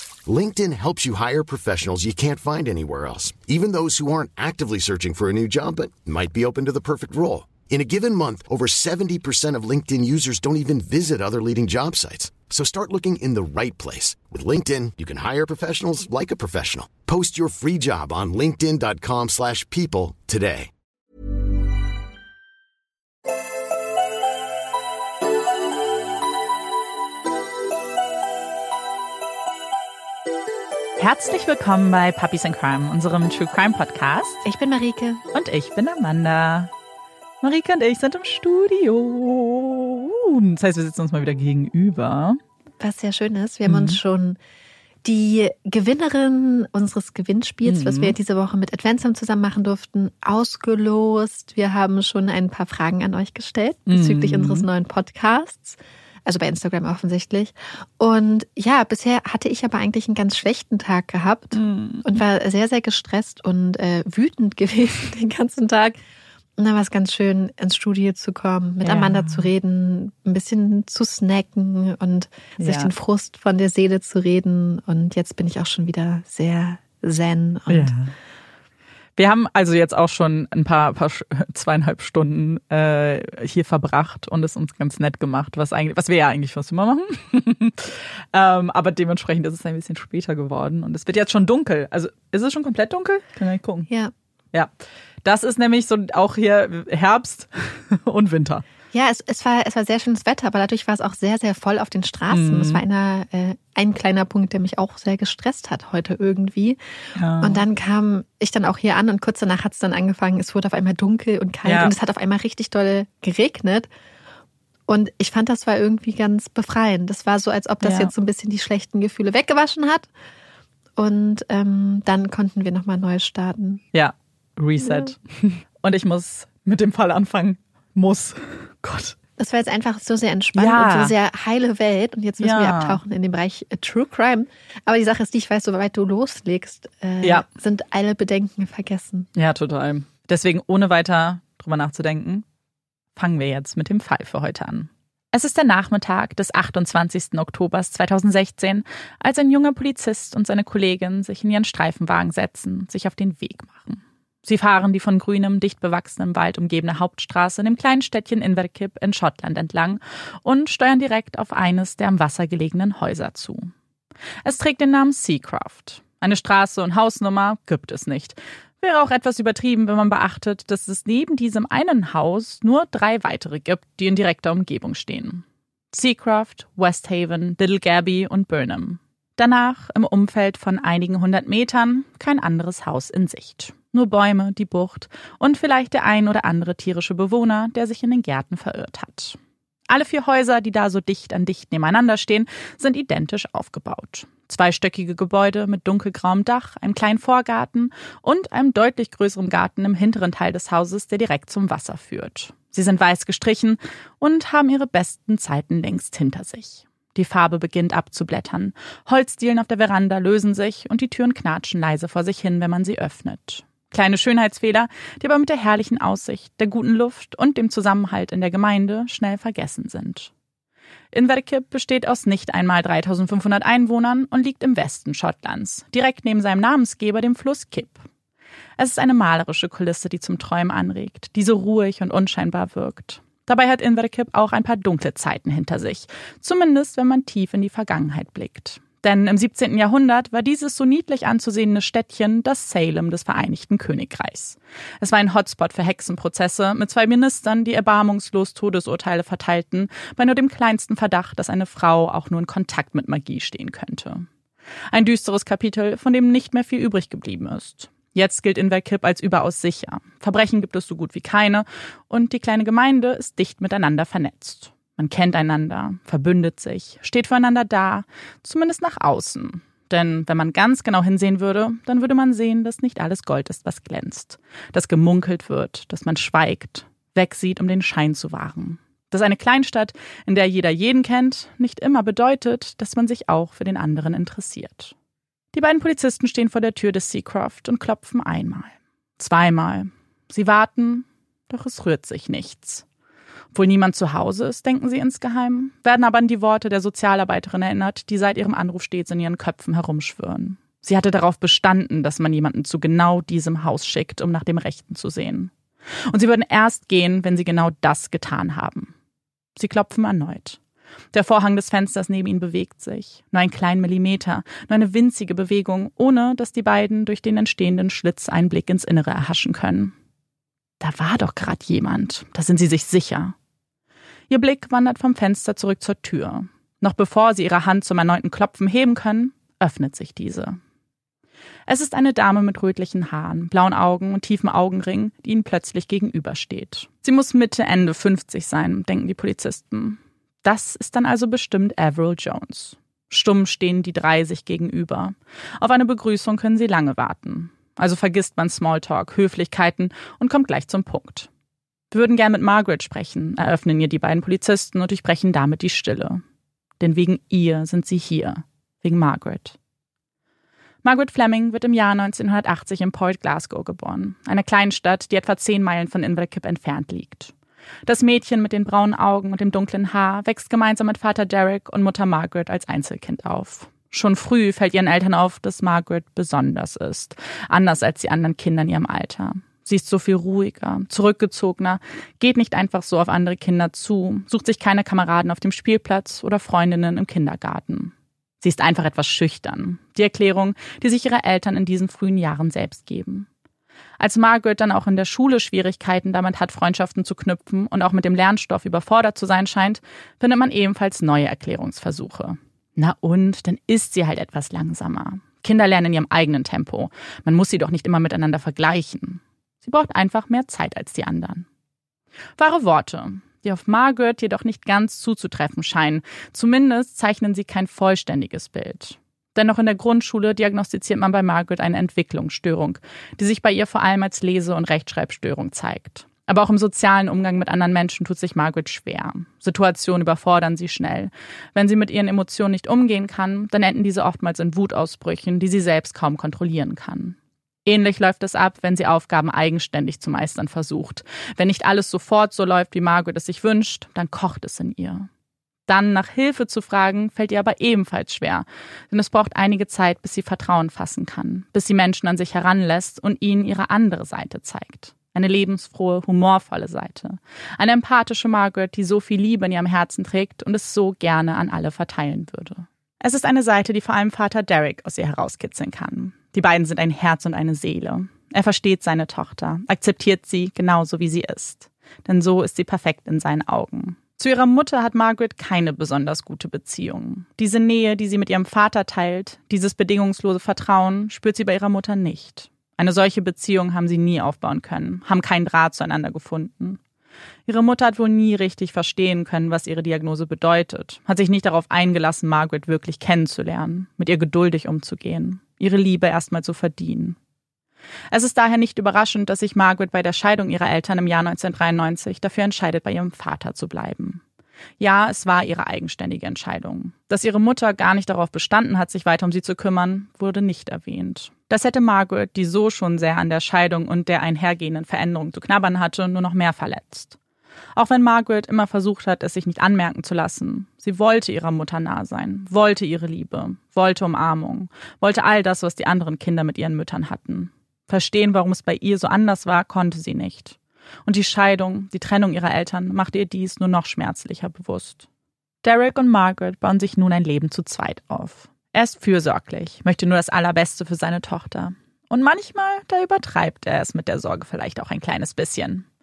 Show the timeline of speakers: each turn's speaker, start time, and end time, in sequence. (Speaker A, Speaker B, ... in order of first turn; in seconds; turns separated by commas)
Speaker A: 0.3-20.7, Speaker B: 31.0-34.5, Speaker C: 34.5-35.2, Speaker B: 35.3-36.7, Speaker B: 37.4-42.4, Speaker C: 42.8-44.4, Speaker B: 43.7-44.0, Speaker C: 45.0-66.0, Speaker B: 47.6-48.2, Speaker B: 53.9-54.7, Speaker B: 61.5-62.1, Speaker C: 66.6-77.9, Speaker B: 68.8-69.5, Speaker B: 72.6-72.9, Speaker B: 77.7-78.1, Speaker B: 79.2-93.9, Speaker B: 95.2-98.6, Speaker C: 98.9-106.8, Speaker B: 102.3-102.8, Speaker B: 107.2-107.6, Speaker C: 107.4-113.9, Speaker B: 111.7-111.9, Speaker C: 114.9-120.1, Speaker B: 117.8-118.1, Speaker C: 121.0-123.8, Speaker B: 123.9-129.2, Speaker C: 124.8-125.1, Speaker C: 129.4-139.3, Speaker B: 130.6-131.1, Speaker B: 132.4-133.0, Speaker B: 139.3-142.4, Speaker B: 143.2-163.7, Speaker B: 164.4-220.3, Speaker B: 221.1-228.1, Speaker B: 228.8-254.3, Speaker B: 254.9-284.9, Speaker B: 285.5-292.9, Speaker B: 293.5-305.5, Speaker B: 306.1-308.9, Speaker B: 309.6-310.6, Speaker B: 311.1-319.9, Speaker B: 320.8-323.4, Speaker B: 324.3-330.6, Speaker B: 331.7-351.3, Speaker B: 351.9-356.2, Speaker B: 356.8-359.6, Speaker B: 360.8-367.3, Speaker B: 367.9-393.3, Speaker B: 394.0-411.5, Speaker B: 412.4-445.1, Speaker B: 445.7-486.8, Speaker B: 487.5-497.2, Speaker B: 498.1-504.2, Speaker B: 504.8-517.2, Speaker B: 517.8-535.0, Speaker B: 535.6-545.9